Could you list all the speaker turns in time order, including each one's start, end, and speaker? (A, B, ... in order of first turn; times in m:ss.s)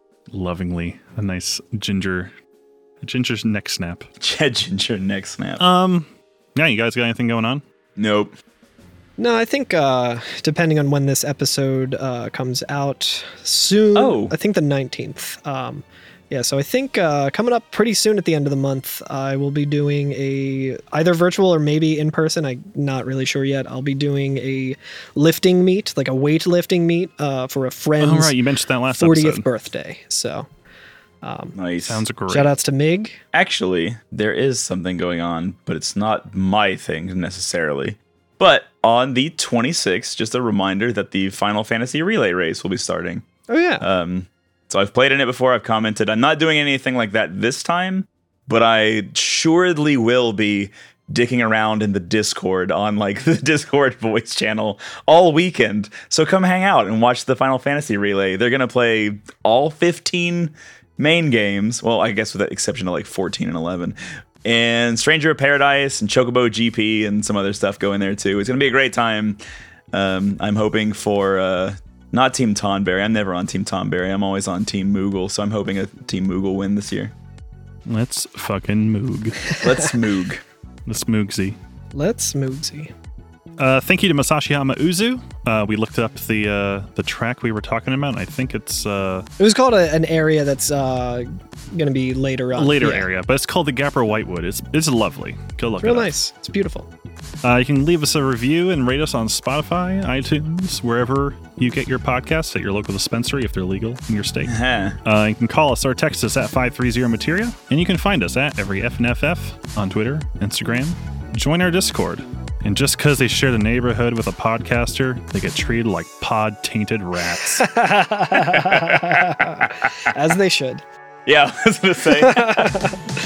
0:00.3-0:02.3 A
0:03.0-0:04.1 A
0:04.2-0:05.6 B
0:05.6-0:07.6 A
0:08.0-0:08.3 B
0:09.2-0:28.4 C
0:14.0-0:14.3 B
0:28.0-0:29.4 A
0:28.9-0:30.5 C
0:31.2-0:31.6 C
0:31.5-0:32.0 B
0:31.9-0:32.5 A
0:32.3-0:33.2 C
0:33.3-0:43.2 B
0:43.5-0:43.8 C
0:43.8-1:09.4 B
1:09.9-1:17.1 B
1:17.9-1:19.4 A
1:19.6-1:20.4 B
1:20.9-1:21.6 A
1:21.9-1:22.9 C
1:23.6-1:29.3 A
1:29.4-1:33.1 C
1:32.6-1:36.1 A
1:35.8-1:36.9 C
1:37.4-1:57.7 A
1:44.4-1:45.0 B
1:57.6-2:00.8 C
1:58.4-1:59.7 B
2:01.3-2:02.8 B
2:02.1-2:03.0 C